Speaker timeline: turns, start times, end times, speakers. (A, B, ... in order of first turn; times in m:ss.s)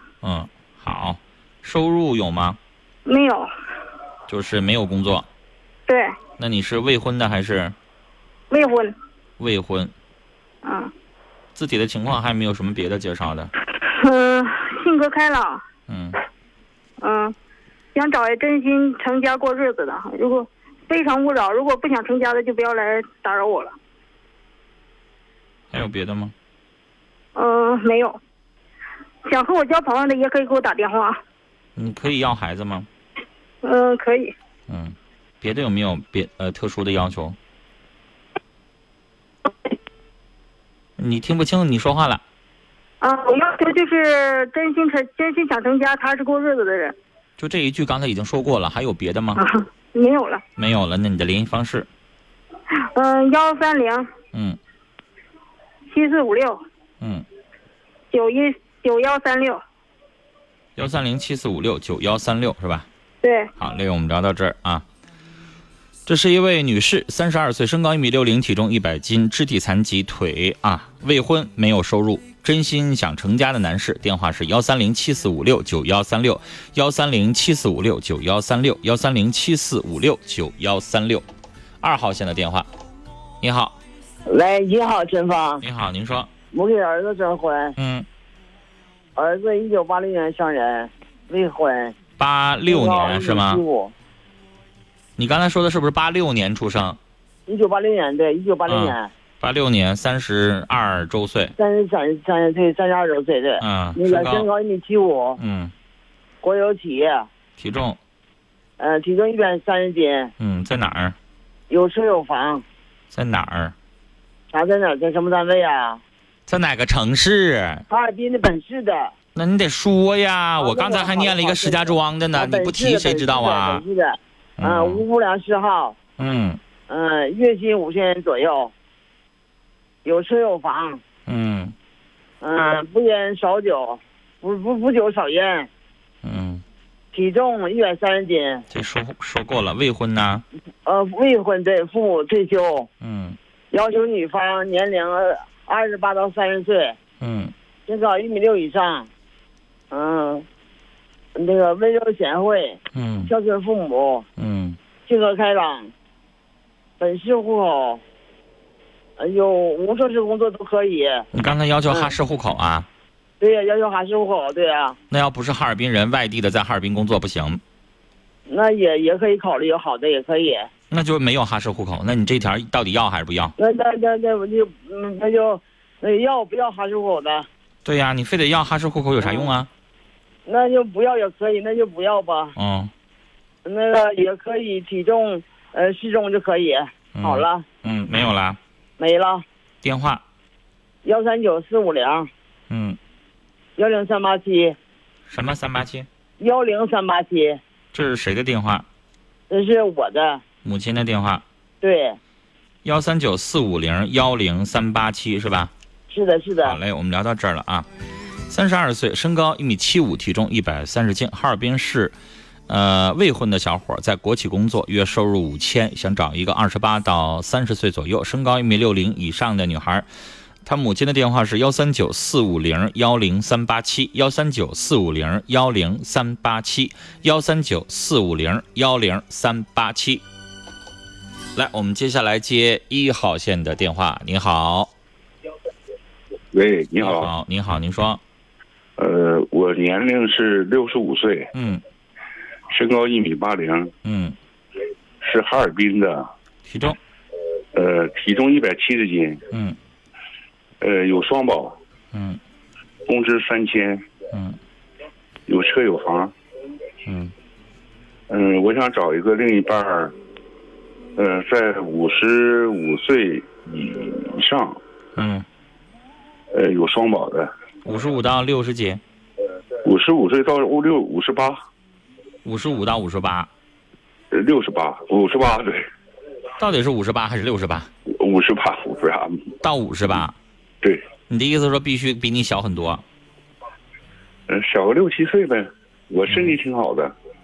0:00.2-0:02.6 A
0:03.0-0:03.5 B
0:04.3-0:05.2 A
0:05.9-0:06.1 B
0:06.4-0:07.7 A
0:08.5-0:08.9 B
0:09.4-0:09.9 A
0:10.6-0:10.9 B
0:11.6-0:13.5 A
0:13.8-0:15.6 B
0:15.9-0:16.2 A
0:17.0-0:17.3 B
0:17.9-0:23.7 B
0:25.7-0:26.3 A
0:27.4-0:28.2 B
0:29.3-0:31.2 B
0:31.8-0:32.9 A
0:33.6-0:34.3 B
0:34.7-0:37.4 A
0:41.0-0:42.2 A
0:43.0-0:47.0 B
0:47.4-0:49.4 A
0:49.4-0:50.4 B
0:50.6-0:51.9 A
0:52.8-0:54.1 B
0:54.3-0:54.6 A
0:55.9-0:56.6 B
0:58.1-0:59.6 B
1:00.8-1:02.9 A
1:03.2-1:03.5 B
1:03.6-1:04.8 A
1:06.1-1:21.2 A
1:21.8-1:22.7 A
1:23.4-1:23.7 A
1:24.3-1:25.6 C
1:25.6-1:26.3 A
1:26.5-1:27.7 C
1:27.8-1:28.0 A
1:29.2-1:31.9 C
1:32.2-1:33.6 A
1:32.7-1:33.9 C
1:35.2-1:37.0 A
1:37.5-1:39.1 C
1:38.7-1:41.5 A
1:41.6-1:45.4 C
1:43.6-1:44.4 A
1:45.4-1:45.7 A
1:46.4-1:47.3 C
1:47.6-1:48.0 A
1:48.8-1:50.3 C
1:50.4-1:51.2 A
1:51.7-1:52.6 C
1:53.1-1:53.7 A
1:54.5-1:56.0 C
1:56.5-1:57.8 A
1:57.9-1:59.1 C
1:59.3-2:03.8 A
2:00.6-2:06.0 C
2:04.6-2:05.0 A
2:06.2-2:06.6 A
2:06.9-2:08.7 C
2:10.0-2:11.0 C
2:11.3-2:11.7 A
2:12.4-2:15.7 C
2:16.2-2:16.6 A
2:17.1-2:18.6 C
2:18.7-2:20.4 A
2:20.8-2:22.9 C
2:23.0-2:23.4 A
2:23.7-2:27.0 C
2:27.2-2:27.5 A
2:27.9-2:29.1 C
2:29.9-2:30.4 C
2:31.3-2:34.2 C
2:32.9-2:33.3 A
2:34.4-2:34.8 A
2:35.1-2:35.9 C
2:37.0-2:38.0 C
2:39.2-2:41.2 C
2:41.3-2:42.9 A
2:43.4-2:45.0 C
2:45.1-2:47.6 A
2:48.5-2:50.7 C
2:50.9-2:53.5 A
2:53.6-2:57.5 C
2:57.8-2:59.7 A
2:59.2-2:59.5 C
3:00.4-3:02.5 C
3:02.6-3:02.9 A
3:03.6-3:07.6 C
3:07.1-3:08.6 A
3:09.0-3:09.4 C
3:09.8-3:10.2 A
3:11.0-3:12.3 C
3:12.7-3:13.0 A
3:13.8-3:14.8 C
3:15.3-3:16.1 A
3:16.4-3:17.6 C
3:17.9-3:18.8 A
3:19.5-3:20.4 C
3:20.6-3:21.4 A
3:21.8-3:22.2 C
3:22.8-3:25.7 A
3:26.1-3:26.8 C
3:26.6-3:27.9 A
3:28.5-3:32.1 A
3:32.7-3:40.1 A
3:40.6-3:50.2 A
3:51.6-3:54.9 A
3:56.5-3:57.3 D
3:57.0-3:58.2 A
3:59.0-4:01.5 D
4:01.5-4:01.8 A
4:02.7-4:03.9 D
4:04.0-4:04.3 A
4:05.2-4:06.3 D
4:06.7-4:07.0 A
4:07.7-4:09.4 D
4:10.8-4:11.8 D
4:12.1-4:12.4 A
4:13.1-4:14.0 D
4:14.3-4:14.6 A
4:15.5-4:16.3 D
4:17.0-4:17.3 A
4:18.3-4:20.1 D
4:21.2-4:24.8 D
4:25.2-4:25.4 A
4:26.5-4:27.5 D
4:27.8-4:29.0 A
4:29.8-4:31.6 D
4:32.4-4:33.5 A
4:34.3-4:35.8 D
4:36.6-4:37.9 A
4:38.1-4:39.4 D
4:39.6-4:40.3 A
4:41.3-4:43.0 A
4:44.5-4:47.1 D
4:46.3-4:46.5 A